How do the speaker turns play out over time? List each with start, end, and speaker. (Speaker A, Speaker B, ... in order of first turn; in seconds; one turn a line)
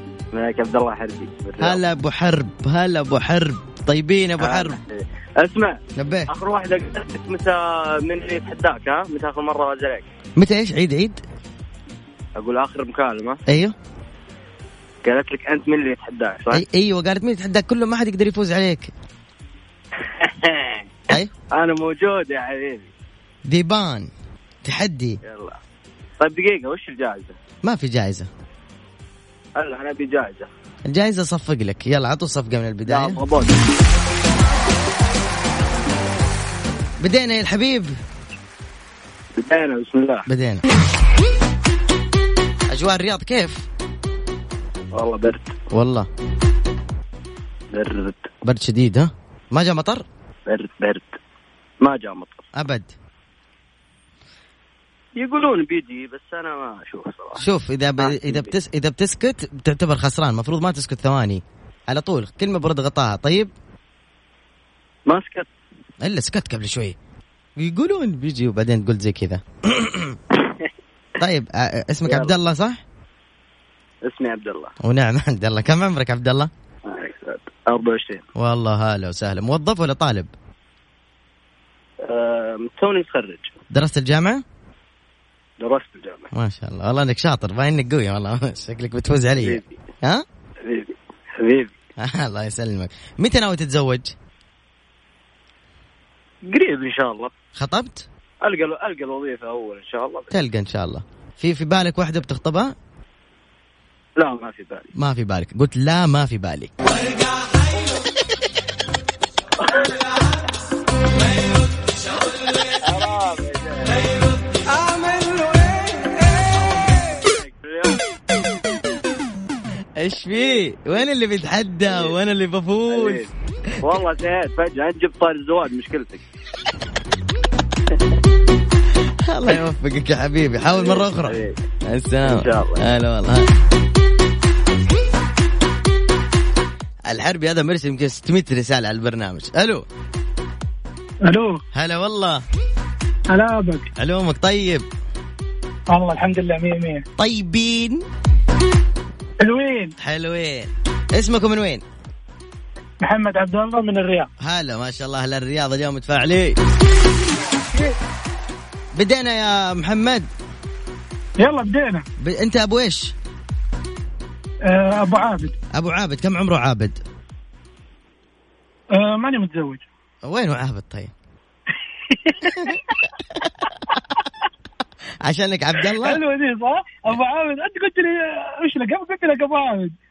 Speaker A: 0.3-1.8
Speaker B: 1.6-4.8
Speaker A: 4.4-5.8
Speaker B: 6.0-6.3
Speaker A: 6.3-10.1
Speaker B: 10.4-11.2
Speaker A: 12.4-13.4
Speaker B: 13.5-13.7
Speaker A: 15.0-16.6
Speaker B: 16.5-18.9
Speaker A: 20.2-20.9
Speaker A: 21.5-22.9
Speaker B: 23.4-24.1
Speaker B: 24.6-25.2
Speaker A: 25.2-25.6
Speaker A: 26.2-27.3
Speaker B: 27.6-28.3
Speaker A: 29.6-30.5
Speaker B: 30.9-33.2
Speaker A: 32.8-33.5
Speaker B: 37.0-37.9
Speaker A: 39.4-40.2
Speaker B: 40.3-40.6
Speaker B: 42.7-43.6
Speaker A: 44.9-45.5
Speaker B: 45.7-46.1
Speaker A: 47.7-48.3
Speaker B: 48.4-50.0
Speaker A: 50.5-51.2
Speaker A: 51.8-52.5
Speaker B: 52.5-52.9
Speaker A: 55.1-57.4
Speaker B: 57.4-63.5
Speaker A: 58.0-58.5
Speaker A: 65.1-65.5
Speaker B: 66.0-67.0
Speaker B: 67.6-70.2
Speaker B: 71.2-72.8
Speaker A: 72.0-72.3
Speaker A: 74.0-74.7
Speaker B: 74.8-76.5
Speaker A: 76.8-78.2
Speaker B: 78.3-80.3
Speaker A: 82.0-83.5
Speaker B: 83.7-84.4
Speaker A: 85.6-86.3
Speaker B: 86.3-90.2
Speaker A: 89.4-89.8
Speaker A: 90.6-91.7
Speaker B: 92.0-94.1
Speaker A: 96.5-97.3
Speaker B: 97.5-98.0
Speaker A: 98.4-100.3
Speaker B: 100.3-102.7
Speaker A: 104.2-104.9
Speaker B: 105.0-106.7
Speaker A: 112.8-114.0
Speaker A: 116.4-118.0
Speaker B: 120.0-123.2
Speaker A: 122.9-123.3
Speaker A: 123.8-126.2
Speaker B: 129.2-133.5
Speaker A: 130.7-131.6
Speaker A: 132.2-132.8
Speaker B: 137.1-139.8
Speaker C: 141.2-141.6
Speaker B: 141.7-142.4
Speaker C: 143.3-143.9
Speaker B: 144.0-144.8
Speaker C: 145.9-147.0
Speaker B: 147.2-148.0
Speaker C: 149.4-149.9
Speaker B: 150.0-151.8
Speaker C: 153.0-154.3
Speaker B: 154.4-156.6
Speaker B: 158.9-160.3
Speaker C: 161.4-162.0
Speaker B: 162.2-163.1
Speaker C: 164.6-165.5
Speaker B: 165.7-167.0
Speaker C: 168.9-169.8
Speaker B: 170.2-171.1
Speaker C: 172.1-172.7
Speaker B: 175.2-176.2
Speaker C: 176.0-179.9